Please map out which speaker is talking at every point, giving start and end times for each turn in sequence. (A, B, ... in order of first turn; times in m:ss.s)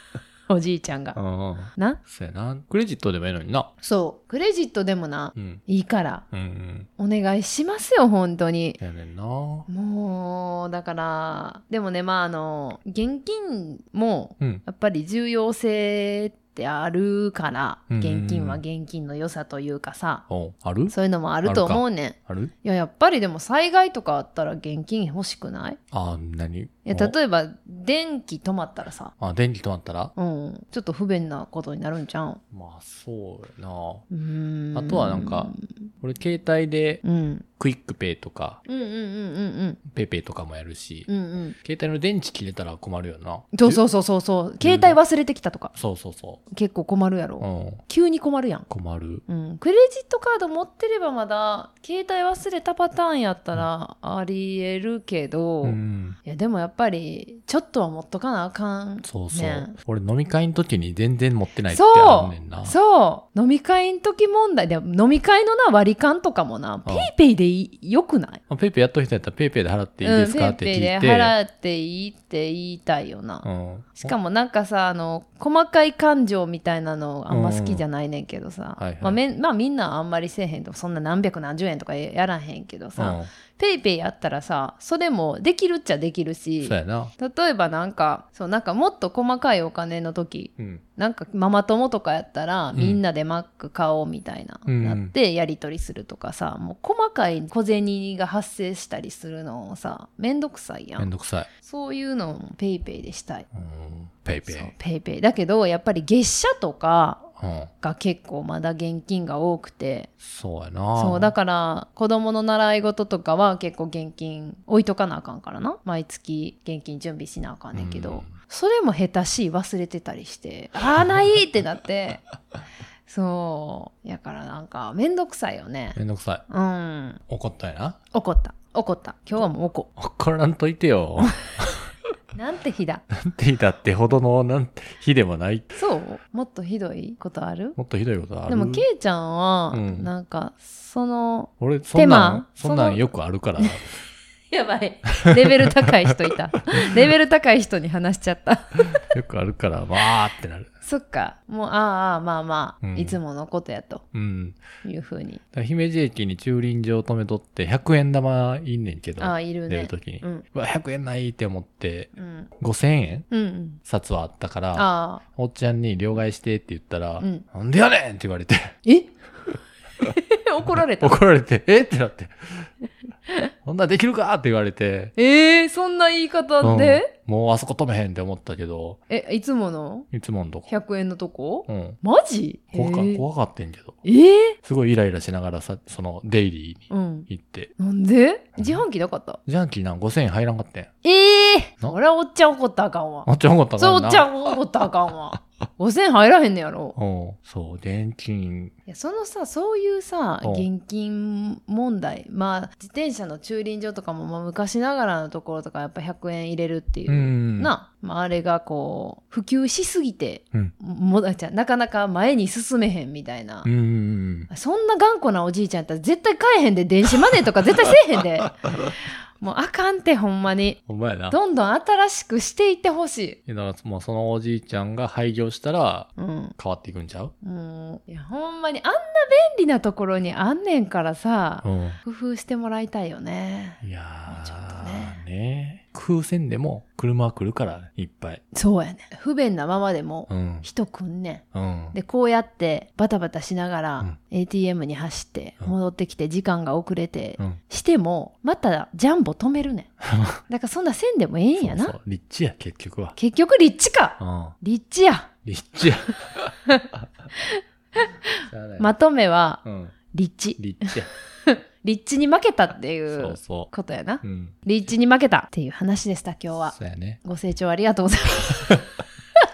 0:00.5-0:01.2 A
0:01.1-0:03.7 B
0:01.7-0:02.0 A
0:03.8-0:06.2 A
0:05.4-0:05.6 B
0:06.3-0:06.9 B
0:07.0-0:08.8 A
0:08.8-0:09.7 B
0:09.7-0:20.2 A
0:17.9-0:18.6 B
0:20.3-0:22.5 B
0:20.9-0:25.8 A
0:25.9-0:27.1 B
0:26.8-0:29.1 A
0:29.2-0:30.1 B
0:30.2-0:32.4 A
0:32.5-0:34.0 B
0:34.1-0:35.6 A
0:34.7-0:37.0 B
0:37.0-0:37.4 A
0:37.6-0:38.6 B
0:38.6-0:39.8 A
0:39.9-0:41.1 B
0:41.1-0:41.6 A
0:41.6-0:43.8 B
0:43.5-0:45.7 A
0:44.6-0:45.0 B
0:45.7-0:46.4 B
0:46.5-0:48.7 A
0:47.4-0:47.8 B
0:48.7-0:49.2 B
0:49.3-0:59.7 A
0:55.6-0:56.2 B
0:59.0-1:02.7 B
1:01.7-1:08.4 A
1:06.8-1:07.1 B
1:08.5-1:11.3 B
1:10.0-1:13.4 A
1:13.4-1:14.1 B
1:14.0-1:41.1 A
1:17.3-1:17.8 B
1:18.8-1:19.2 B
1:23.0-1:23.3 B
1:26.6-1:27.1 B
1:32.7-1:33.0 B
1:34.7-1:35.1 B
1:41.0-1:41.5 B
1:41.6-1:43.4 A
1:43.5-1:44.7 B
1:44.4-1:47.3 A
1:47.4-1:47.7 B
1:47.8-1:50.1 A
1:50.2-1:51.3 B
1:51.0-2:02.2 A
1:57.7-1:58.3 B
2:03.1-2:07.2 A
2:06.0-2:06.4 B
2:07.3-2:08.0 B
2:08.1-2:09.9 A
2:10.0-2:11.9 B
2:12.3-2:13.0 A
2:13.1-2:15.8 B
2:15.8-2:17.8 A
2:17.8-2:18.8 B
2:18.5-2:23.0 A
2:19.7-2:20.1 B
2:21.6-2:23.9 B
2:24.5-2:29.0 A
2:25.2-2:25.9 B
2:29.0-2:30.7 B
2:30.8-2:34.0 A
2:32.8-2:33.2 B
2:34.1-2:34.6 B
2:34.8-2:35.4 A
2:35.5-2:43.3 B
2:39.2-2:40.4 A
2:42.2-2:42.5 A
2:43.3-2:43.8 A
2:43.8-2:48.8 B
2:44.7-2:45.2 A
2:47.2-2:47.4 A
2:48.8-2:49.1 A
2:50.0-2:51.2 A
2:50.8-2:52.7 B
2:53.6-2:55.1 B
2:55.2-2:57.1 A
2:56.6-2:59.0 B
2:59.1-3:00.1 A
3:00.1-3:00.7 B
3:00.7-3:03.2 A
3:01.7-3:02.0 B
3:02.7-3:04.0 B
3:04.0-3:04.6 A
3:04.6-3:07.7 B
3:06.9-3:09.4 A
3:09.4-3:10.9 B
3:11.0-3:17.0 A
3:13.2-3:14.3 B
3:17.0-3:18.7 B
3:18.9-3:33.7 A
3:27.1-3:27.7 B
3:33.6-3:34.5 B
3:34.5-3:43.4 A
3:40.9-3:41.4 B
3:43.5-3:47.3 B
3:46.2-3:46.5 A
3:47.4-3:55.2 A
3:51.6-3:52.0 B
3:53.8-3:58.4 B
3:58.5-4:09.9 A
4:00.3-4:00.7 B
4:01.5-4:02.0 B
4:10.0-4:10.4 B
4:10.5-4:11.9 A
4:11.6-4:13.2 B
4:13.2-4:15.3 A
4:14.2-4:14.5 B
4:15.4-4:16.6 B
4:16.7-4:19.6 A
4:18.5-4:18.9 B
4:19.6-4:20.0 B
4:20.1-4:20.9 A
4:20.6-4:21.1 B
4:21.4-4:28.8 A
4:23.1-4:23.7 B
4:24.2-4:24.5 B
4:26.7-4:27.2 B